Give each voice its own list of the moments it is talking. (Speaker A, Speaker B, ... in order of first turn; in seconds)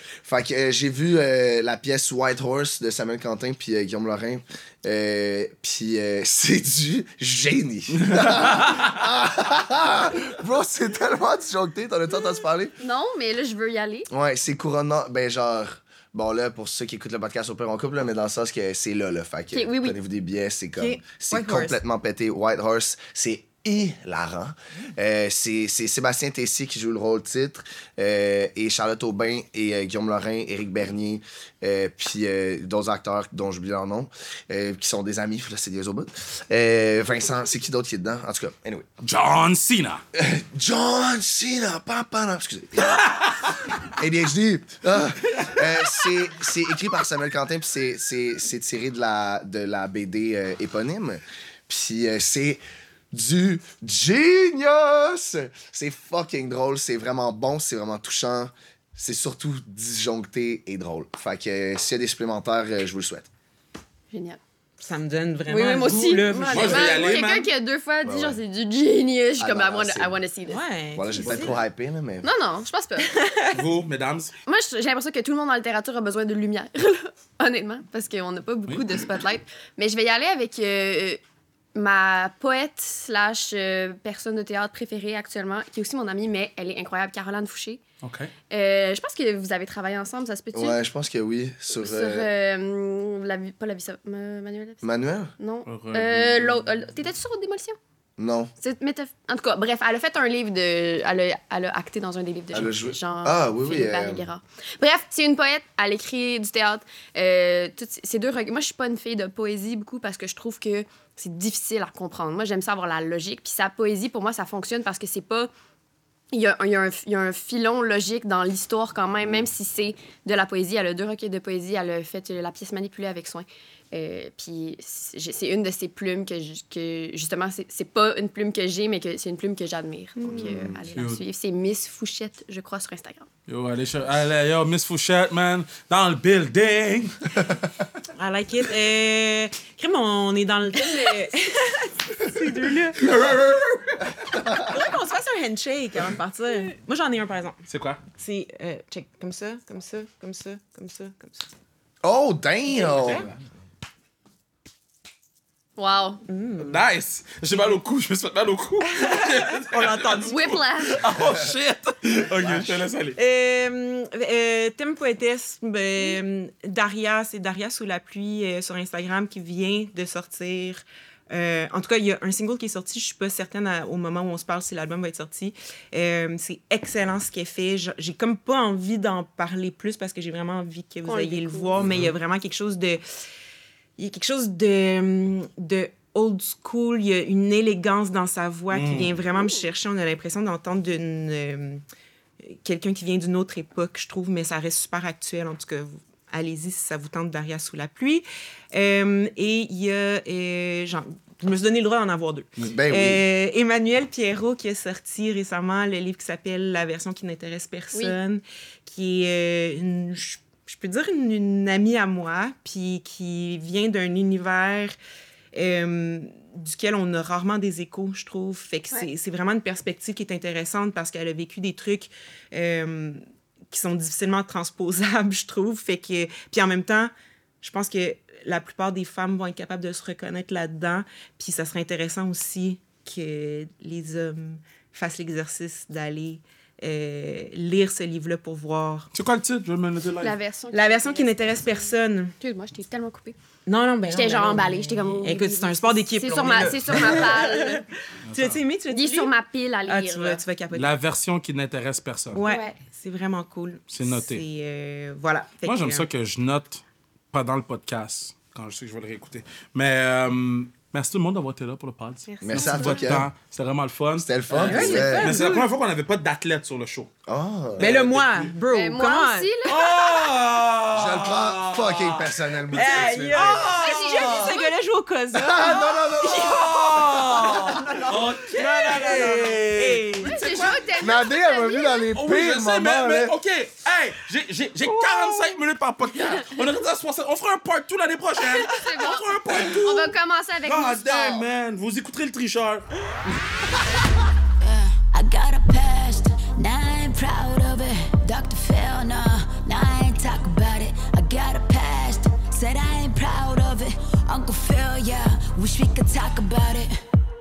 Speaker A: 0.2-12.7, 14.1-38.9, 40.1-43.2, 43.9-63.3, 68.0-68.4, 69.4-70.2, 70.9-72.3, 90.5-92.3, 94.8-95.3, 98.2-98.5, 102.5-104.2, 119.2-119.5, 130.3-130.8, 144.4-144.7, 152.0-153.3, 202.6-203.2, 262.4-263.3, 264.2-265.4, 267.2-267.9, 270.9-273.7, 275.3-277.3, 281.0-283.3
Speaker B: 8.0-8.9, 39.0-40.0, 42.8-43.8, 45.2-46.1, 66.5-67.5, 73.5-74.3, 88.0-88.3, 95.7-96.4, 130.9-131.2, 133.5-137.4, 142.9-144.4, 147.7-148.0, 156.6-163.2, 181.8-182.1, 188.7-189.2, 239.1-240.4, 246.9-247.3, 248.3-248.6, 250.7-252.4, 253.9-254.4, 255.6-267.1, 267.8-268.5, 269.6-274.6, 276.2-280.9, 282.1-292.9
Speaker C: 12.8-14.1, 19.5-20.0, 64.1-64.4, 65.5-70.6, 72.2-73.2, 74.5-81.2, 81.7-87.8, 88.5-90.8, 91.7-94.8, 95.4-97.8, 98.6-115.5, 116.3-133.3, 140.8-141.2, 155.8-156.2, 160.2-161.1, 181.0-181.8, 240.2-241.9, 242.4-243.3, 244.1-247.8, 248.9-250.4, 252.4-252.7, 262.6-263.1, 268.7-270.3, 273.6-274.7, 280.2-282.1, 288.4-291.4
Speaker D: 20.8-21.8, 64.8-67.1, 70.5-71.5, 73.1-73.5, 130.2-130.7, 138.1-143.0, 144.6-147.6, 148.1-151.5, 152.7-153.3, 156.3-156.8, 158.8-160.6, 163.1-183.0, 184.0-191.8, 192.4-214.9, 215.5-239.1, 240.7-242.3, 243.7-249.3, 249.8-250.9, 252.3-256.1, 262.3-263.0, 264.5-265.7, 267.8-269.5, 272.7-280.4
Speaker E: 294.6-306.9